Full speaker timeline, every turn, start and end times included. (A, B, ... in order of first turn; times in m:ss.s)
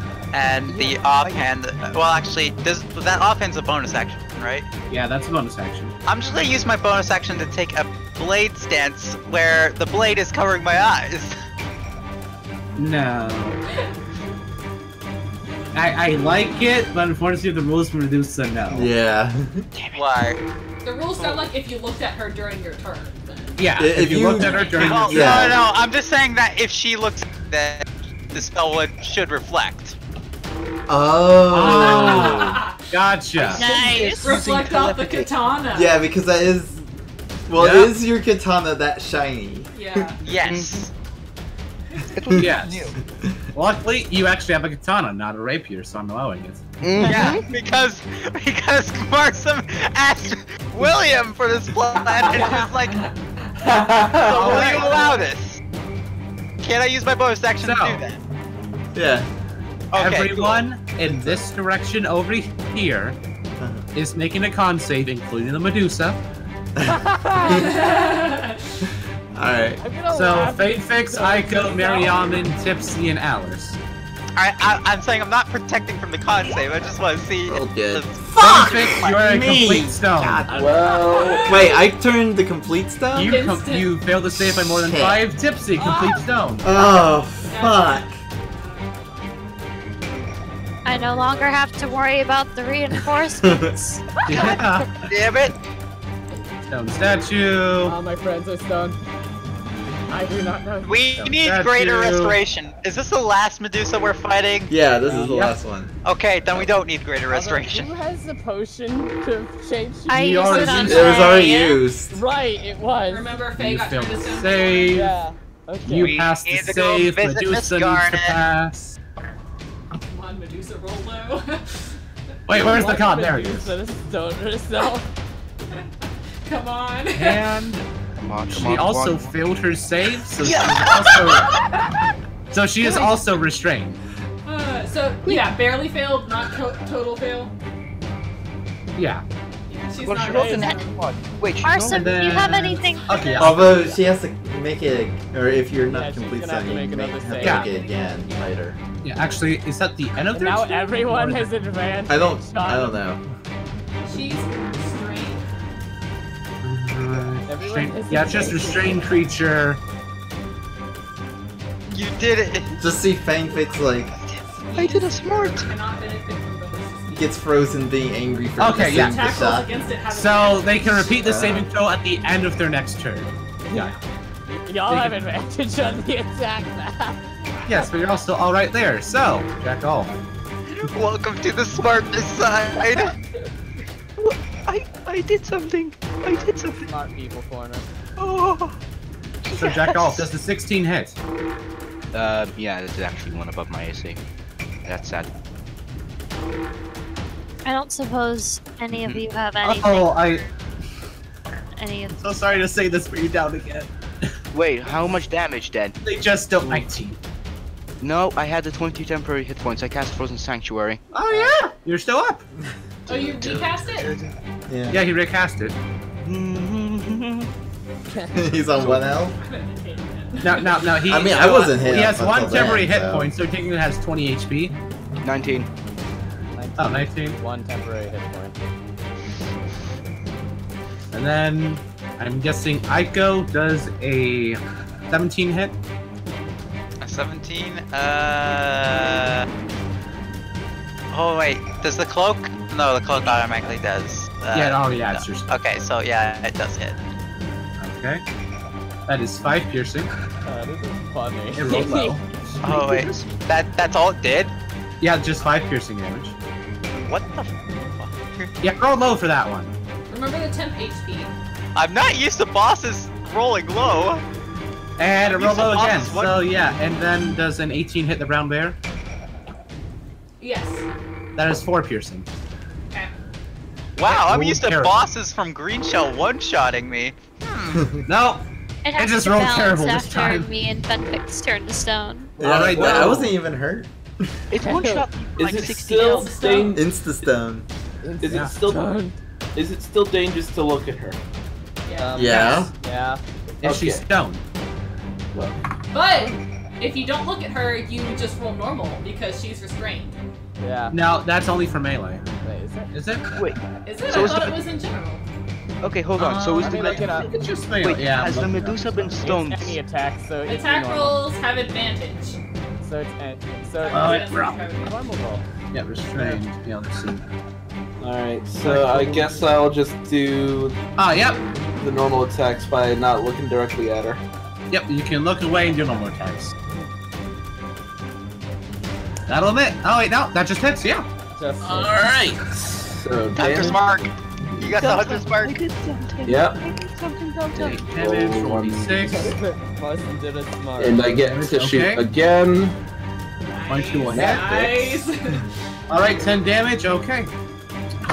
0:00.3-0:04.7 A
0:00.7-0:01.5 B
0:04.9-0:06.0 C
0:06.0-0:11.4 A
0:12.8-0:13.6 C
0:13.7-0:13.9 D
0:15.7-0:18.9 C
0:18.7-0:19.7 E
0:19.8-0:20.0 B
0:19.8-0:20.4 A
0:20.8-0:25.0 D
0:21.2-0:21.5 A
0:23.6-0:25.6 C
0:23.8-0:25.6 E
0:24.6-0:30.0 A
0:30.9-0:32.6 E
0:31.5-0:33.6 C
0:31.6-0:36.0 D
0:33.5-0:34.4 F
0:33.6-0:35.3 B
0:35.7-0:36.8 E
0:37.5-0:40.1 E
0:37.6-0:37.9 C
0:39.7-0:40.2 D
0:40.2-0:40.9 A
0:40.3-0:40.9 B
0:42.1-0:43.0 B
0:42.3-0:42.9 C
0:43.5-0:47.4 C
0:46.8-0:47.5 B
0:47.0-0:47.4 G
0:47.0-0:53.1 A
0:52.4-0:52.6 G
0:53.6-0:54.5 H
0:54.2-0:55.0 C
0:54.3-0:55.6 A
0:56.6-0:58.2 A
0:57.6-0:58.0 C
0:59.0-0:59.3 E
0:59.9-1:00.7 A
0:59.9-1:03.2 C
1:01.0-1:01.4 E
1:03.6-1:03.9 E
1:03.9-1:06.2 C
1:06.8-1:07.8 E
1:06.9-1:07.6 G
1:07.4-1:08.6 D
1:09.3-1:09.8 E
1:09.8-1:12.2 G
1:10.1-1:13.8 C
1:14.4-1:19.2 A
1:17.5-1:20.7 E
1:18.4-1:20.6 C
1:20.5-1:21.5 H
1:20.6-1:21.9 D
1:21.4-1:23.4 E
1:23.2-1:26.7 C
1:23.2-1:24.0 D
1:24.3-1:25.2 E
1:25.8-1:26.3 G
1:26.6-1:28.2 E
1:27.5-1:29.4 D
1:30.8-1:34.0 F
1:30.9-1:31.6 G
1:33.4-1:33.8 E
1:34.2-1:35.2 C
1:34.3-1:34.6 G
1:35.0-1:35.6 A
1:36.7-1:38.0 C
1:37.8-1:39.0 G
1:40.1-1:41.0 G
1:40.8-1:44.8 A
1:41.2-1:42.4 C
1:44.7-1:46.7 E
1:45.0-1:45.6 C
1:46.0-1:47.9 A
1:47.3-1:51.1 G
1:50.1-1:51.8 F
1:50.3-1:51.3 C
1:50.9-1:52.2 E
1:52.1-1:53.3 G
1:53.1-1:55.0 D
1:53.6-1:55.1 C
1:54.9-1:56.2 G
1:55.8-1:59.0 C
1:55.9-1:58.4 A
2:00.0-2:02.0 D
2:02.5-2:03.7 C
2:02.6-2:05.1 G
2:06.5-2:07.6 D
2:07.2-2:07.8 C
2:08.2-2:09.3 B
2:08.5-2:11.6 C
2:10.4-2:11.5 B
2:11.5-2:12.0 D
2:12.5-2:14.0 C
2:14.4-2:17.5 D
2:19.0-2:19.2 C
2:19.7-2:21.0 D
2:20.0-2:22.8 B
2:20.3-2:20.7 G
2:21.6-2:23.3 F
2:21.9-2:23.8 C
2:22.8-2:23.9 D
2:23.4-2:28.8 E
2:25.9-2:27.7 G
2:27.4-2:27.7 C
2:27.6-2:28.6 D
2:29.0-2:31.5 C
2:30.3-2:33.0 G
2:32.1-2:33.3 E
2:34.0-2:35.5 D
2:36.6-2:39.8 C
2:37.5-2:39.2 G
2:41.9-2:42.8 A
2:42.8-2:44.1 E
2:44.6-2:47.4 D
2:44.7-2:45.7 B
2:47.1-2:49.7 E
2:48.6-2:49.2 C
2:48.8-2:51.5 D
2:50.1-2:54.0 C
2:51.2-2:51.7 E
2:53.6-2:54.0 G
2:54.5-2:57.2 G
2:54.9-2:55.2 C
2:57.5-2:57.9 D
2:57.7-3:00.2 C
3:00.7-3:03.2 A
3:02.7-3:03.0 B
3:04.2-3:06.9 B
3:06.3-3:07.9 G
3:08.2-3:08.8 B
3:09.4-3:10.3 B
3:09.5-3:11.2 C
3:12.1-3:14.2 B
3:14.9-3:15.3 B
3:17.6-3:20.5 F
3:18.9-3:19.2 B
3:19.6-3:20.4 C
3:21.8-3:22.2 F
3:22.2-3:24.3 C
3:24.5-3:26.0 B
3:26.0-3:27.2 C
3:28.0-3:31.0 B
3:31.1-3:32.4 C
3:31.3-3:31.6 G
3:33.1-3:34.4 B
3:33.1-3:34.1 D
3:34.7-3:35.0 E
3:34.9-3:35.8 C
3:36.2-3:37.5 B
3:38.1-3:38.4 G
3:38.3-3:39.4 E
3:38.7-3:40.9 D
3:40.4-3:44.7 C
3:41.0-3:43.3 E
3:45.2-3:45.7 B
3:46.5-3:48.6 G
3:46.8-3:47.4 C
3:51.1-3:55.8 C
3:57.0-3:59.5 A
4:01.1-4:07.0 A
4:04.5-4:05.5 C
4:07.8-4:08.2 C
4:09.1-4:10.1 C
4:10.5-4:12.2 G
4:11.6-4:12.8 C
4:12.6-4:13.4 B
4:12.6-4:14.5 A
4:15.0-4:16.3 C
4:17.0-4:18.5 A
4:18.6-4:19.7 C
4:20.1-4:21.4 D
4:21.8-4:24.2 A
4:25.0-4:28.8 C
4:25.2-4:26.4 A
4:30.4-4:30.9 D
4:31.4-4:32.3 C
4:34.0-4:37.9 A
4:34.0-4:35.1 C
4:37.7-4:38.0 E
4:38.1-4:38.4 C
4:38.8-4:42.4 F
4:39.0-4:40.5 C
4:42.4-4:43.3 C
4:42.4-4:43.9 E
4:42.4-4:43.2 H
4:44.5-4:46.6 B
4:44.6-4:45.1 G
4:45.4-4:46.8 H
4:46.0-4:46.8 D
4:46.7-4:47.7 E
4:48.0-4:49.2 G
4:48.2-4:48.9 H
4:49.6-4:51.2 H
4:51.8-4:52.6 D
4:52.0-4:53.2 G
4:52.2-4:52.7 E
4:53.6-4:54.4 C
4:53.6-4:54.0 H
4:55.3-4:55.6 H
4:55.9-5:00.2 D
5:00.6-5:01.0 G
5:00.9-5:02.2 C
5:02.4-5:02.9 G
5:02.9-5:03.3 C
5:03.3-5:04.6 B
5:03.8-5:05.2 D
5:04.1-5:04.5 C
5:05.8-5:09.8 B
5:06.2-5:09.2 C
5:06.6-5:07.3 G
5:09.2-5:11.2 G
5:10.5-5:12.4 D
5:12.8-5:15.4 G
5:13.8-5:15.0 D
5:13.9-5:14.6 C
5:15.7-5:17.2 C
5:16.2-5:16.4 E
5:18.0-5:20.8 H
5:18.6-5:19.4 C
5:21.0-5:21.4 C
5:21.8-5:24.2 H
5:24.7-5:26.5 C
5:29.3-5:31.1 C
5:31.4-5:32.0 G
5:31.6-5:32.4 C
5:32.1-5:34.9 H
5:33.4-5:34.1 A
5:33.4-5:33.7 B
5:34.6-5:37.9 B
5:34.6-5:35.6 A
5:36.2-5:36.6 H
5:37.6-5:39.4 H
5:37.6-5:39.3 C
5:39.1-5:41.2 G
5:40.8-5:42.8 H
5:41.2-5:42.1 C
5:43.5-5:45.5 D
5:43.7-5:44.5 C
5:44.1-5:45.0 H
5:45.9-5:47.3 C